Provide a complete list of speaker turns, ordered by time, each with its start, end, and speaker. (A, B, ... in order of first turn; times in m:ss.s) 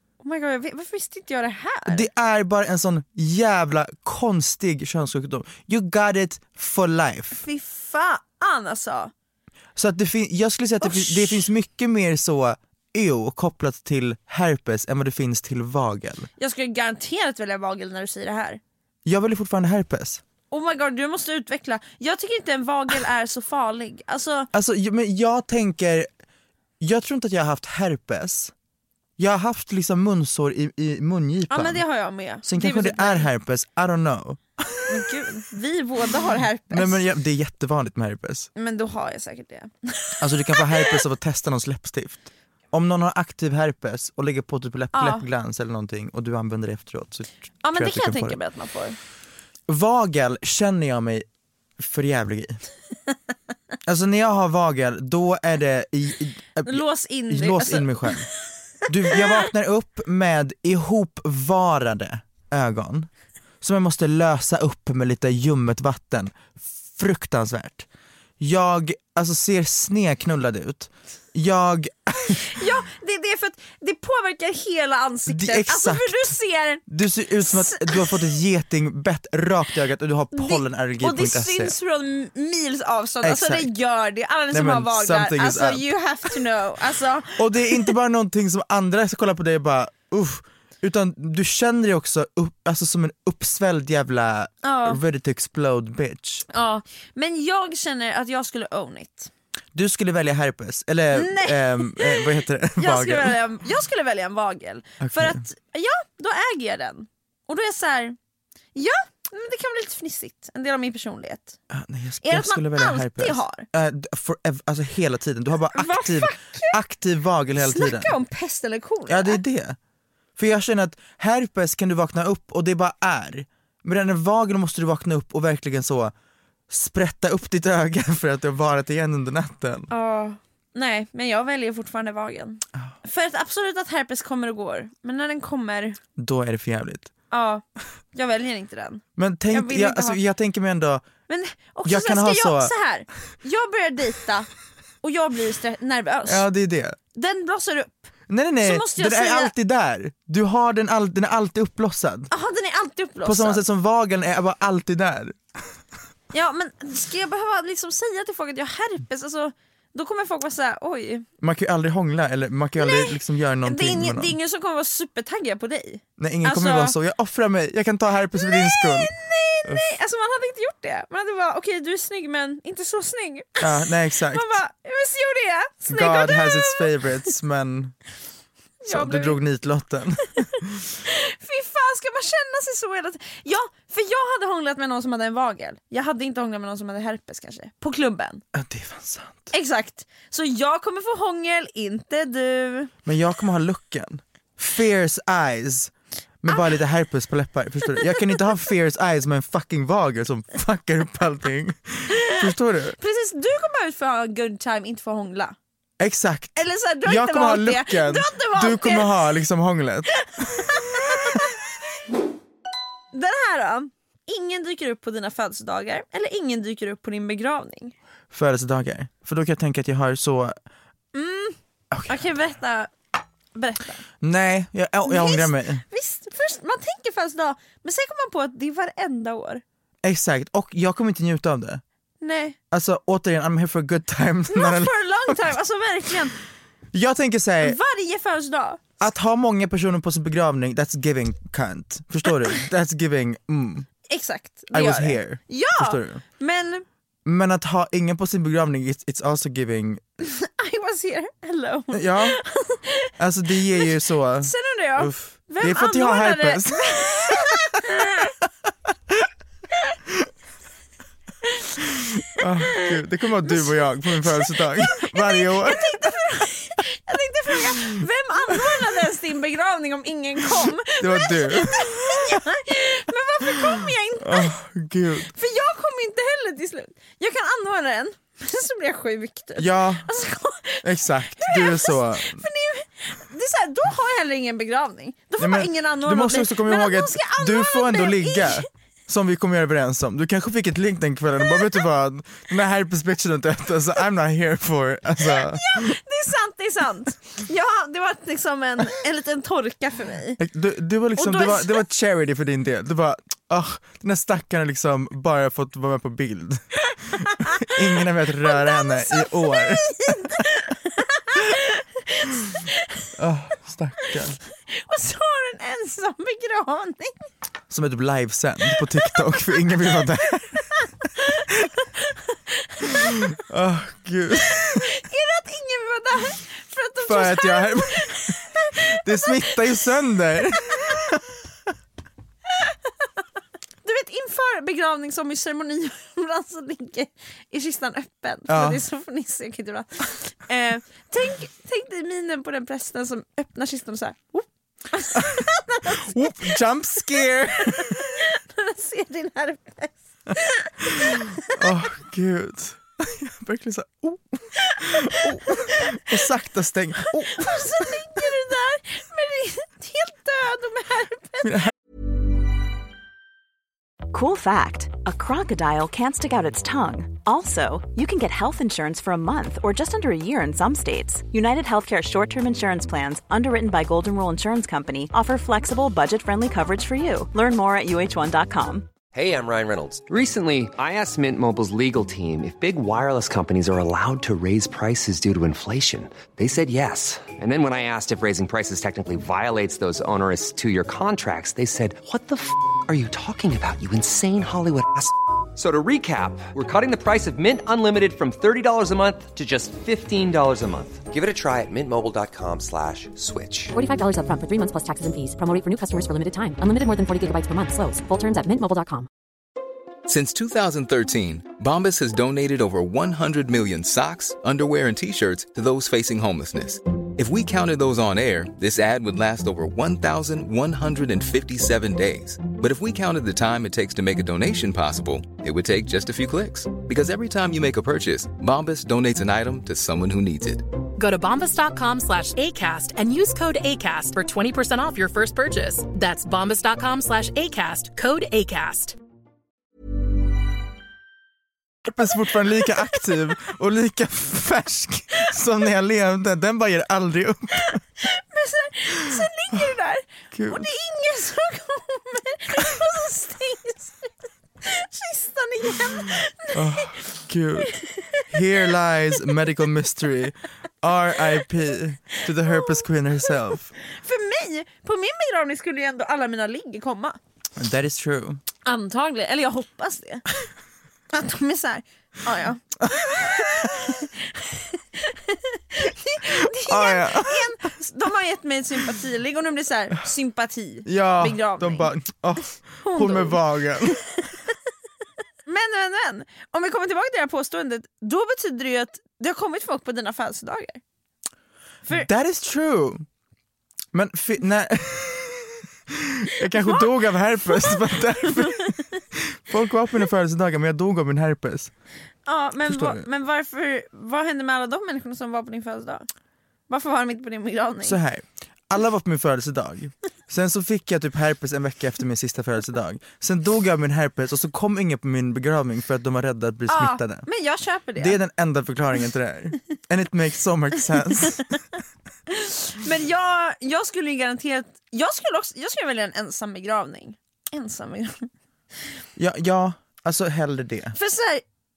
0:00.2-0:02.1 A
0:01.9-0:07.4 B
0:07.3-0:09.1 A
0:09.8-0:16.3 B
0:10.8-0:11.5 A
0:16.4-0:18.6 A
0:19.0-0:20.2 B
0:20.5-0:24.5 A
0:24.5-0:26.1 B
0:26.8-0:28.5 B
0:29.2-0:31.8 B
0:31.5-0:33.3 A
0:32.4-0:35.1 B
0:34.9-0:37.0 A
0:36.7-0:38.5 B
0:38.6-0:41.0 A
0:40.2-0:48.4 B
0:44.9-0:45.2 A
0:47.6-0:49.0 A
0:49.7-0:51.3 B
0:51.8-0:52.6 B
0:53.8-0:58.3 B
0:56.6-0:58.2 A
0:58.9-1:03.1 B
0:59.1-0:59.4 A
1:03.6-1:07.9 B
1:08.4-1:12.5 B
1:12.3-1:16.8 A
1:15.3-1:16.3 B
1:16.9-1:21.8 B
1:17.4-1:18.2 A
1:20.3-1:27.9 A
1:23.2-1:23.7 B
1:24.5-1:25.9 B
1:27.4-1:36.4 B
1:34.6-1:35.0 A
1:36.5-1:39.3 A
1:39.8-1:43.4 B
1:41.1-1:48.2 A
1:45.0-1:45.4 B
1:48.8-1:51.6 A
1:51.7-1:58.2 B
1:52.2-1:53.7 A
1:55.7-1:56.8 A
1:57.6-1:59.4 A
1:59.1-1:59.8 B
2:00.4-2:06.1 B
2:06.7-2:09.9 B
2:09.9-2:16.0 A
2:16.2-2:17.1 B
2:17.3-2:17.6 A
2:18.1-2:20.2 A
2:19.2-2:21.1 B
2:21.3-2:24.5 A
2:21.8-2:22.7 B
2:25.0-2:26.5 A
2:26.3-2:27.0 B
2:27.2-2:29.5 A
2:28.3-2:32.3 B
2:32.3-2:33.6 A
2:33.2-2:35.4 B
2:36.3-2:41.3 A
2:41.4-2:44.4 B
2:42.8-2:47.0 A
2:46.2-2:49.1 B
2:48.4-2:57.1 A
2:53.6-2:54.6 B
2:55.9-2:58.0 B
2:58.8-2:59.4 A
2:58.9-3:00.8 B
3:01.0-3:08.4 A
3:08.5-3:09.5 B
3:09.5-3:12.9 A
3:13.0-3:15.9 B
3:16.4-3:23.0 B
3:22.1-3:22.5 A
3:23.0-3:25.6 A
3:26.0-3:31.4 B
3:26.6-3:29.2 A
3:30.3-3:31.5 A
3:33.1-3:38.0 A
3:38.3-3:40.6 B
3:41.1-3:42.9 A
3:41.9-3:42.2 B
3:43.6-3:44.0 A
3:44.2-3:45.8 B
3:45.0-3:49.6 A
3:50.0-3:51.8 B
3:52.2-3:52.6 A
3:52.7-3:55.4 B
3:54.5-3:56.4 A
3:56.9-3:57.8 B
3:57.6-3:58.8 A
3:59.0-4:03.9 B
4:04.1-4:06.8 A
4:04.7-4:06.2 B
4:07.2-4:10.0 B
4:10.2-4:13.1 A
4:11.9-4:12.4 B
4:13.2-4:17.6 B
4:13.7-4:18.3 A
4:22.4-4:26.5 B
4:22.4-4:22.9 A
4:23.4-4:34.6 A
4:31.0-4:32.4 B
4:34.2-4:35.3 B
4:35.3-4:48.7 A
4:39.6-4:40.1 B
4:40.8-4:42.4 B
4:45.4-4:56.0 B
4:55.2-5:00.4 A
5:00.4-5:10.4 B
5:01.2-5:01.8 A
5:07.2-5:07.8 A
5:08.4-5:13.1 A
5:13.2-5:14.4 B
5:14.7-5:17.2 A
5:17.7-5:20.7 B
5:20.8-5:23.2 A
5:22.9-5:24.9 B
5:24.5-5:29.9 A
5:27.0-5:31.2 B
5:30.6-5:30.9 A
5:33.8-5:46.6 A
5:38.5-5:38.8 B
5:45.2-5:48.0 B
5:47.2-5:51.6 A
5:50.8-5:58.2 B
5:54.7-5:55.8 A
5:57.2-6:01.7 A
6:01.4-6:01.7 B
6:04.1-6:18.9 C
6:19.1-6:43.7 D
6:43.7-6:49.1 E
6:50.1-7:10.7 F
7:11.0-7:19.0 G
7:21.9-7:27.8 B
7:27.6-7:34.1 A
7:30.3-7:30.7 B
7:34.6-7:38.4 A
7:36.5-7:37.7 B
7:38.3-7:43.7 B
7:42.5-7:42.8 A
7:43.8-7:47.2 A
7:47.6-7:48.4 B
7:48.6-7:50.3 A
7:51.1-8:01.9 A
7:52.8-7:54.0 B
7:56.3-7:57.6 B
8:00.9-8:04.0 B
8:02.8-8:03.4 A
8:05.5-8:10.8 A
8:11.9-8:13.0 B
8:13.9-8:21.7 B
8:16.5-8:19.0 A
8:22.3-8:26.1 A
8:22.6-8:23.1 B
8:26.7-8:28.0 A
8:27.8-8:37.3 B
8:36.7-8:38.2 A
8:38.0-8:41.5 B
8:41.2-8:41.6 A
8:42.3-8:48.3 A
8:49.2-8:51.0 B
8:50.9-8:51.4 A